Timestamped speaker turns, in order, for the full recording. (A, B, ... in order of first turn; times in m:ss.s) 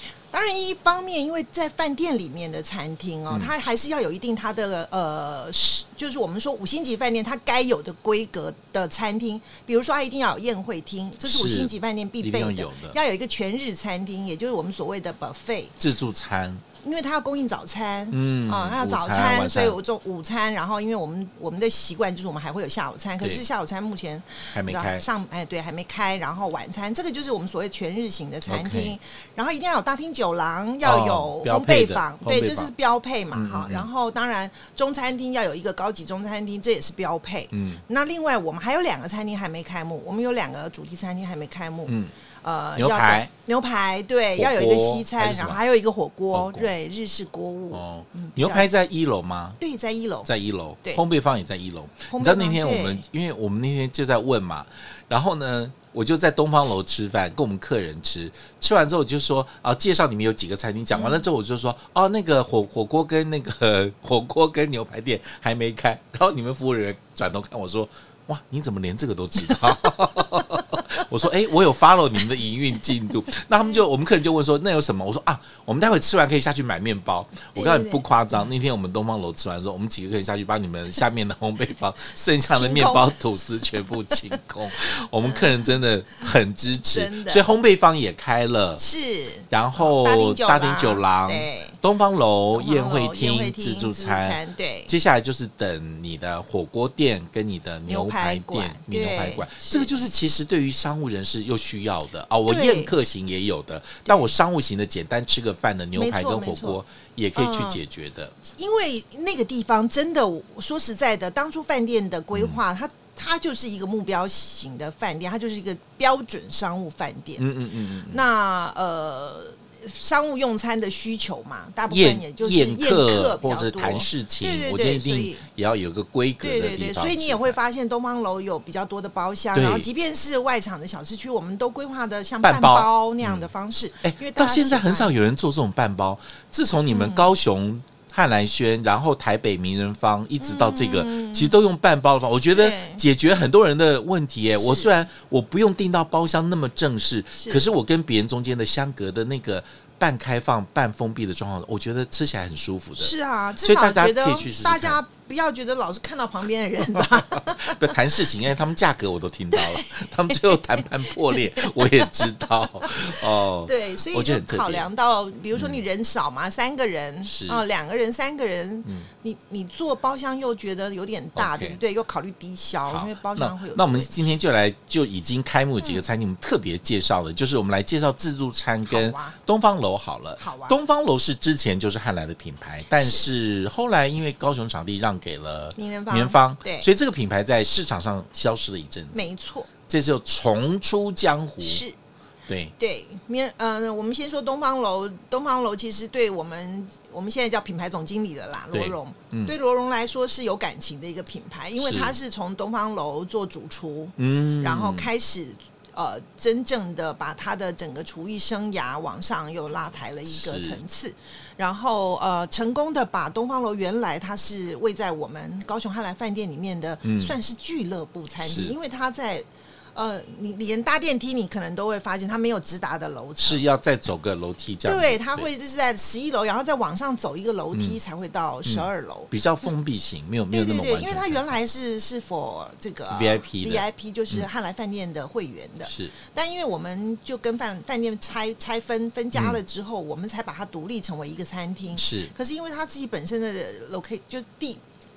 0:00.3-0:15.8 A
0:11.2-0:13.0 B
0:15.8-0:16.6 B
0:16.8-0:48.7 A
0:18.1-0:19.8 B
0:24.5-0:25.0 B
0:28.5-0:29.0 B
0:30.8-0:32.7 B
0:33.3-0:33.9 B
0:37.5-0:37.8 B
0:41.9-0:42.1 B
0:42.8-0:43.3 B
0:44.4-0:45.6 B
0:46.3-0:46.7 B
0:47.7-0:49.6 B
0:49.6-0:50.3 A
0:50.3-1:28.8 B
0:52.1-0:53.0 A
1:00.9-1:01.2 A
1:17.6-1:18.1 A
1:22.5-1:23.2 A
1:25.2-1:25.7 A
1:26.9-1:27.5 A
1:28.8-1:31.8 A
1:29.5-1:48.4 B
1:32.5-1:34.9 A
1:37.9-1:40.1 A
1:42.5-1:43.0 A
1:44.1-1:44.3 A
1:46.0-1:46.8 A
1:47.4-1:47.8 A
1:48.4-1:57.5 A
1:52.3-1:52.6 B
1:57.4-1:58.2 B
1:58.1-2:05.5 A
2:01.9-2:07.6 B
2:06.4-2:15.1 A
2:09.5-2:09.9 B
2:12.4-2:13.5 B
2:14.0-2:35.0 B
2:16.9-2:17.3 A
2:20.4-2:21.6 A
2:22.5-2:23.0 A
2:24.5-2:24.9 A
2:27.4-2:27.7 A
2:33.0-2:38.2 A
2:37.0-2:44.9 B
2:39.5-2:54.2 A
2:45.6-2:45.8 B
2:47.2-2:47.6 B
2:51.4-2:51.8 B
2:52.9-3:09.3 B
2:58.9-2:59.4 A
3:00.4-3:00.8 A
3:03.0-3:03.3 A
3:05.8-3:06.9 A
3:09.1-3:09.7 A
3:09.9-3:11.8 B
3:11.6-3:12.0 A
3:12.5-3:12.7 B
3:12.8-3:43.6 A
3:18.7-3:19.5 B
3:21.8-3:22.2 B
3:24.2-3:25.1 B
3:30.3-3:30.8 B
3:37.0-3:37.4 B
3:38.4-3:38.8 B
3:43.4-3:45.5 B
3:44.8-3:49.3 A
3:47.7-3:48.0 B
3:48.6-3:51.4 B
3:50.5-4:04.8 A
3:53.1-3:54.5 B
3:55.9-3:56.1 B
3:59.3-3:59.6 B
4:01.9-4:02.3 B